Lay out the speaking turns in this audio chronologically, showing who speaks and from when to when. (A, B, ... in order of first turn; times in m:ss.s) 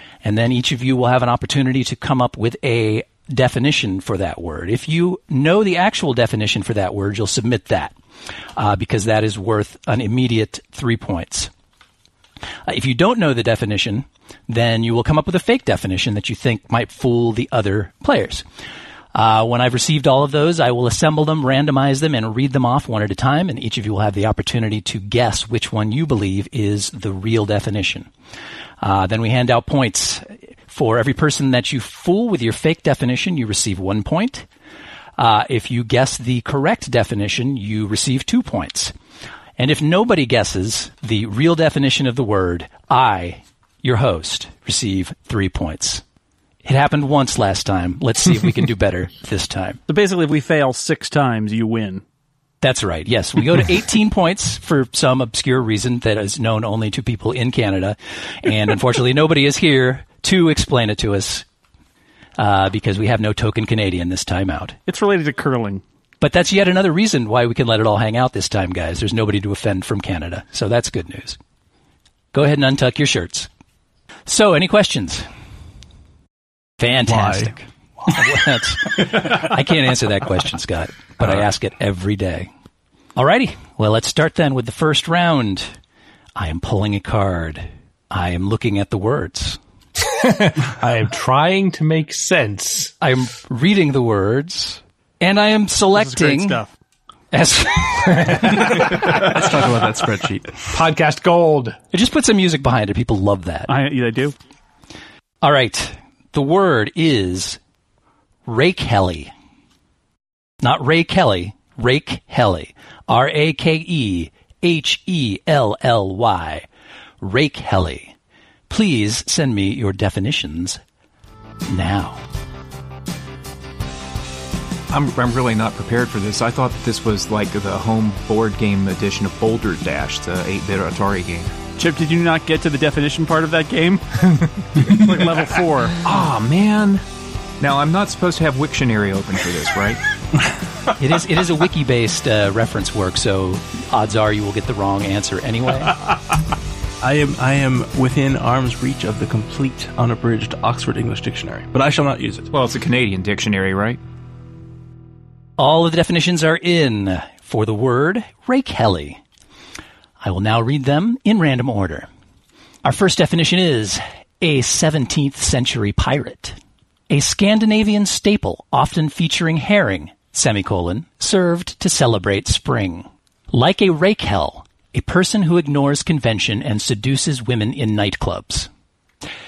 0:00.2-0:07.9 A
0:08.6-0:11.5 A
0:12.6-0:18.4 A
0:19.1-0:28.1 A
0:28.8-0:34.5 A
0:35.2-0:38.9 A
0:39.6-0:46.0 A
0:46.6-0:49.8 A
0:49.9-0:52.0 B
0:52.6-1:01.4 A
1:02.4-1:04.8 A
1:04.9-1:05.8 B
1:06.2-1:11.4 A
1:12.3-1:13.5 A
1:14.3-1:15.3 A
1:16.8-1:22.5 A
1:17.1-1:17.6 C
1:23.2-1:25.7 A
1:26.4-1:29.6 A
1:30.1-1:32.9 D
1:33.0-1:36.6 A
1:36.0-1:36.7 B
1:37.3-1:38.9 A
1:38.6-1:40.8 C
1:40.7-1:41.8 D
1:41.9-1:43.7 A
1:43.7-1:44.4 B
1:45.4-1:47.6 A
1:48.5-1:49.3 A
1:50.6-1:56.7 A
1:57.2-1:58.1 A
1:58.7-2:00.8 A
2:01.7-2:02.2 A
2:04.9-2:11.5 E
2:11.8-2:16.0 B
2:16.0-2:17.0 E
2:17.6-2:20.0 E
2:21.0-2:26.0 A
2:27.0-2:32.5 C
2:32.5-2:34.0 E
2:35.6-2:39.2 A
2:40.2-2:42.1 A
2:42.8-2:46.6 A
2:47.1-2:58.7 A